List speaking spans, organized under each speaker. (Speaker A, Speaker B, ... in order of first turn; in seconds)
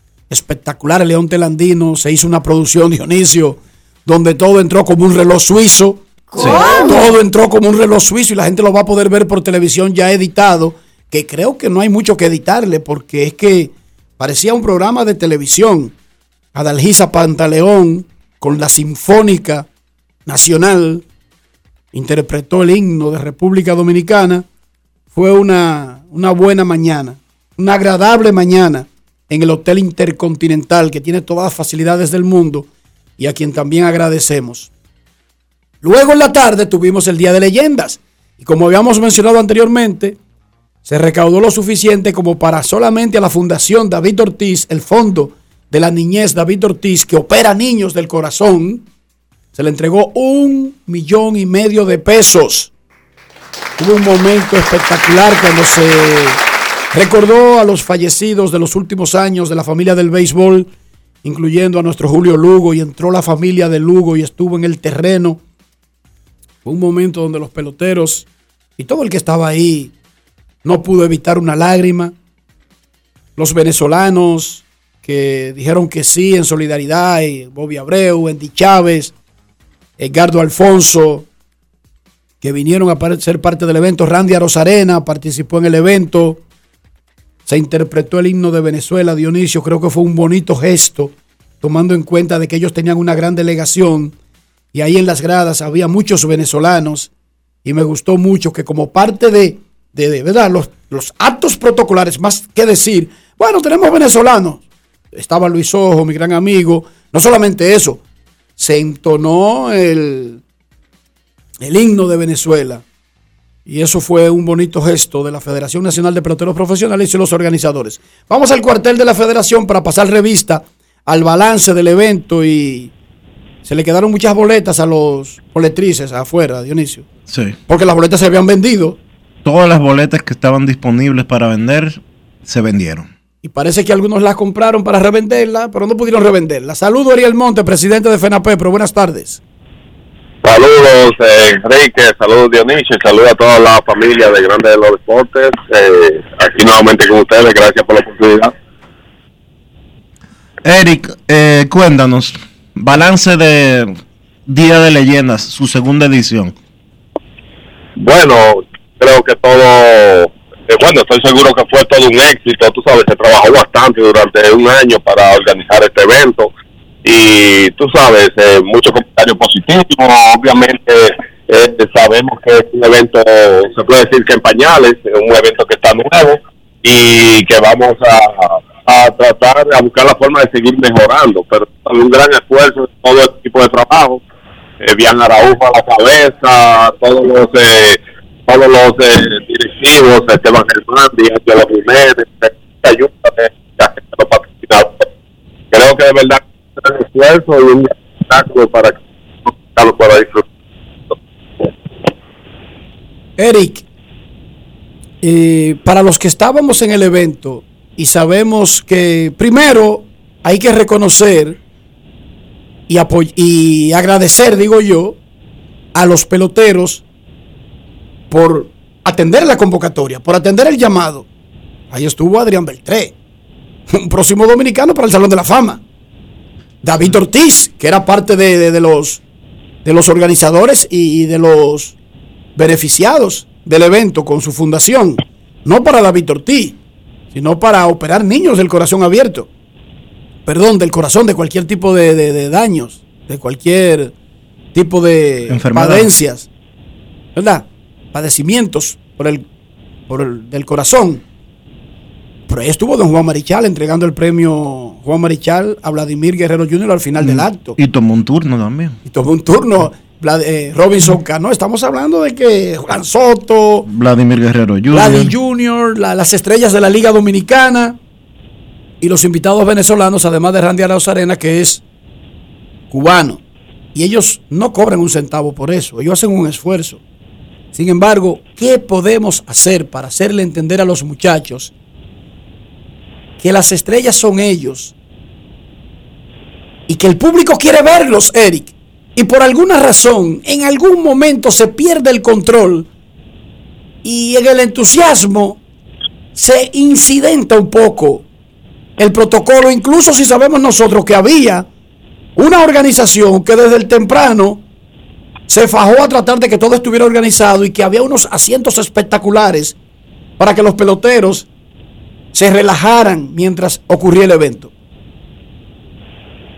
Speaker A: 0.3-6.1, 6.7-15.9, 16.5-19.7, 20.3-21.0, 21.9-24.5, 25.1-34.7, 35.8-40.2, 40.9-48.9, 49.5-52.7, 53.8-56.4, 56.9-60.7, 61.2-65.4, 66.6-68.3, 68.8-69.9, 70.6-72.1, 73.4-79.1, 80.0-81.3, 82.4-86.4, 87.5-94.1, 94.7-97.1, 97.6-108.0, 108.6-110.4, 111.6-112.8, 113.7-122.9, 123.6-127.1, 127.7-129.0, 133.4-139.4, 203.4-203.8, 205.2-211.6, 212.9-215.2, 215.9-217.0, 218.3-221.3, 221.9-223.1, 223.9-225.8, 226.8-229.2, 229.8-231.9, 232.6-236.8, 237.3-239.5, 240.5-244.1, 244.7-246.5, 247.4-249.4, 250.1-251.2, 252.5-257.8, 259.1-263.9, 264.9-268.0, 269.0-271.8, 272.9-273.4, 273.9-277.0, 277.7-281.7, 283.4-284.9, 286.9-292.9, 294.0-295.6, 296.4-298.3, 299.0-301.7, 302.4-304.6, 305.5-309.8, 310.4-311.5, 312.3-314.7
Speaker B: 127.3-127.6, 129.4-133.1, 150.6-156.6, 245.5-246.1, 257.2-259.0, 263.9-265.4
Speaker C: 140.4-148.5, 158.0-166.5, 167.1-184.2, 184.8-195.1, 195.7-200.4